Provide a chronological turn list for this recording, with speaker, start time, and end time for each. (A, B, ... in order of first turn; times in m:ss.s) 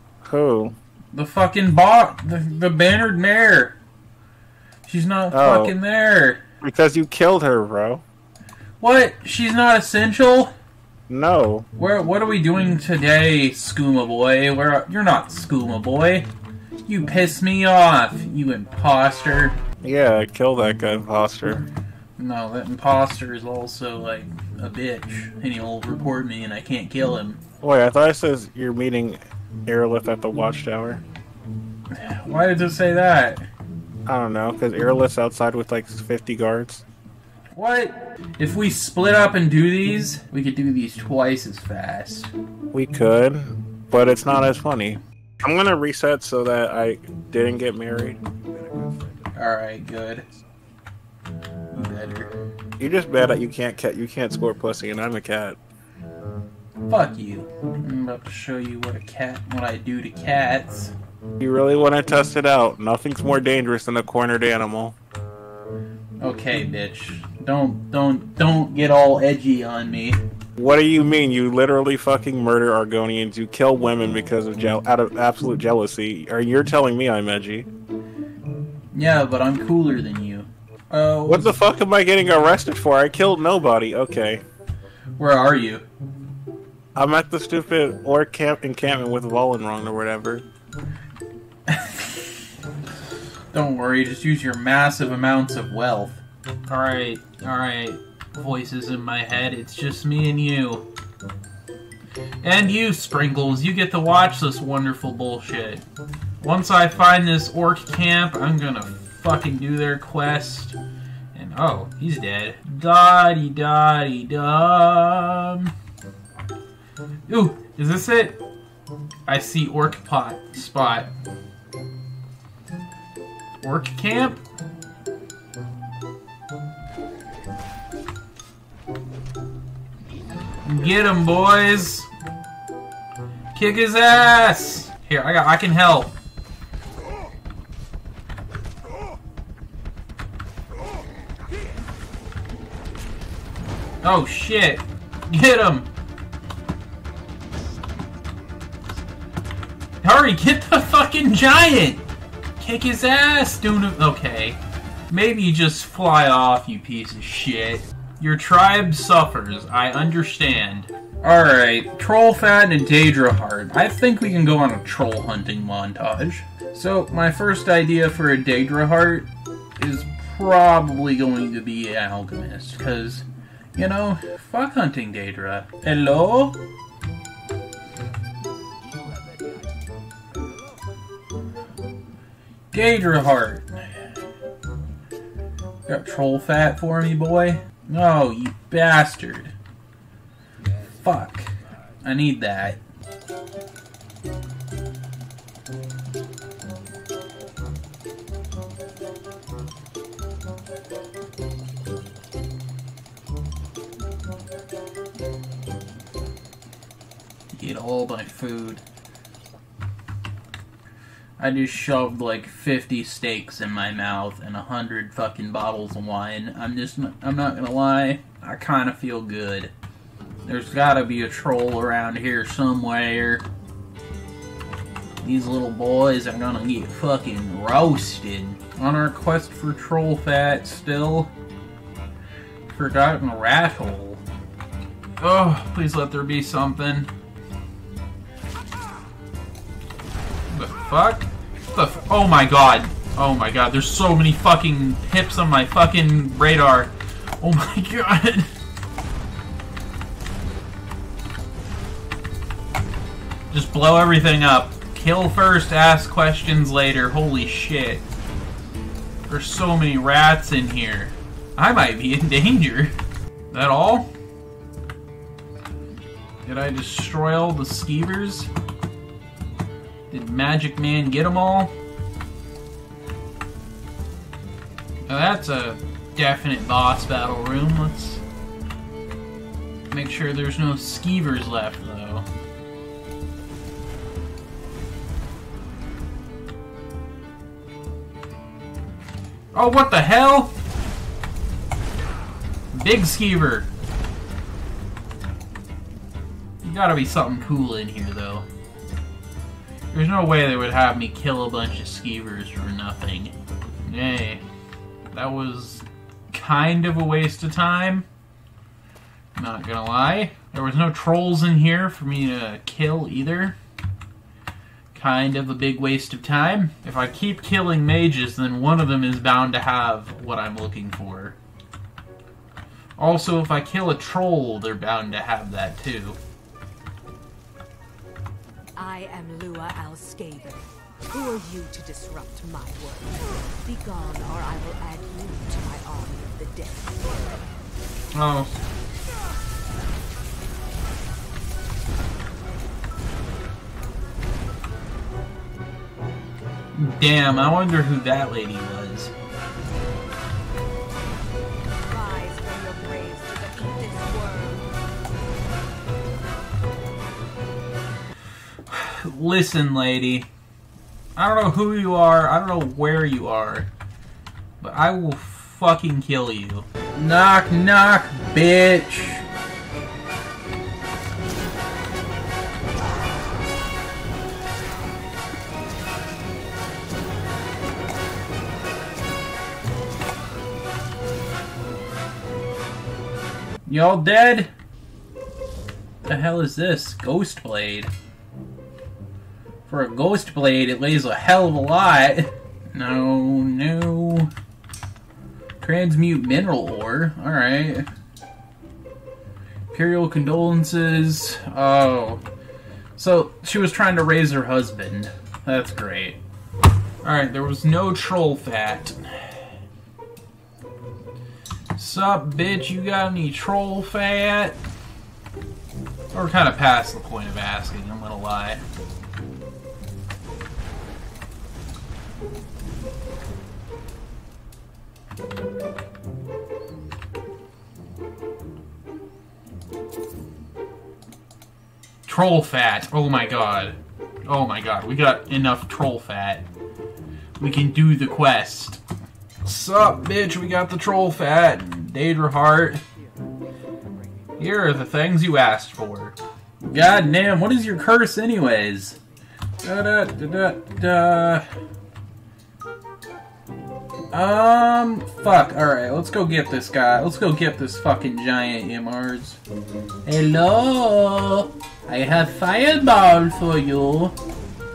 0:00.2-0:00.8 A
0:01.1-0:03.8 B
0:04.8-0:06.4 B
0:05.3-0:05.8 A
0:06.6-0:08.0 A
0:08.8-0:10.5 B
0:11.1-0:11.7 A
0:11.8-0:16.3 B
0:16.9-0:19.6 B
0:19.8-0:21.7 A
0:22.2-0:27.4 B
0:27.6-0:31.0 A
0:31.9-0:33.5 B
0:34.1-0:36.8 A
0:37.5-0:42.3 B
0:42.7-0:49.1 A
0:49.4-0:50.2 B
0:51.7-0:52.4 B
0:52.8-0:55.6 A
0:56.9-1:00.9 B
1:01.4-1:05.0 A
1:06.2-1:10.2 B
1:10.6-1:17.7 A
1:18.9-1:21.6 B
1:21.3-1:24.4 A
1:25.2-1:25.9 B
1:27.0-1:30.4 A
1:31.7-1:32.4 B
1:33.5-1:40.9 B
1:42.4-1:45.8 B
1:46.4-1:50.8 B
1:51.3-1:55.7 B
1:57.3-1:58.4 B
1:59.3-2:01.1 B
2:03.6-2:04.4 B
2:10.6-2:12.1 B
2:13.5-2:16.1 B
2:24.0-2:25.9 B
2:30.0-2:32.0 B
2:32.6-2:34.6 B
2:35.1-2:56.6 B
3:02.7-3:03.8 B
3:05.9-3:09.5 B
3:10.9-3:11.5 B
3:12.0-3:12.8 B
3:27.5-3:28.8 B
3:31.4-3:39.7 B
3:40.4-3:43.4 B
3:45.2-3:51.3 B
3:52.7-3:54.2 B
3:55.2-3:57.1 B
4:00.5-4:08.5 B
4:13.5-4:18.0 B
4:19.3-4:22.9 B
4:23.5-4:24.1 B
4:26.4-4:28.5 B
4:30.1-4:31.7 B
4:35.1-4:38.2 B
4:39.9-4:42.3 B
4:49.5-4:50.5 B
4:52.7-4:53.7 B
4:56.6-4:58.4 B
4:59.9-5:04.4 B
5:05.1-5:08.1 B
5:09.4-5:13.6 B
5:14.9-5:21.4 B
5:23.0-5:26.2 B
5:28.8-5:37.0 C
5:38.1-5:38.5 B
5:46.7-5:49.1 B
5:51.9-5:54.7 C
5:58.7-6:00.3 B
6:01.2-6:03.7 B
6:04.6-6:09.3 B
6:23.7-6:24.5 B
6:26.0-6:27.9 B
6:29.7-6:34.3 B
6:35.6-6:37.9 B
6:39.7-6:42.2 B
6:43.0-6:46.2 B
6:47.0-6:49.4 B
6:51.8-6:54.6 B
6:56.1-6:58.6 B
7:12.1-7:16.5 B
7:17.4-7:18.8 B
7:19.4-7:22.8 B
7:24.4-7:29.0 B
7:29.6-7:31.5 B
7:34.1-7:39.4 B
7:40.0-7:44.1 B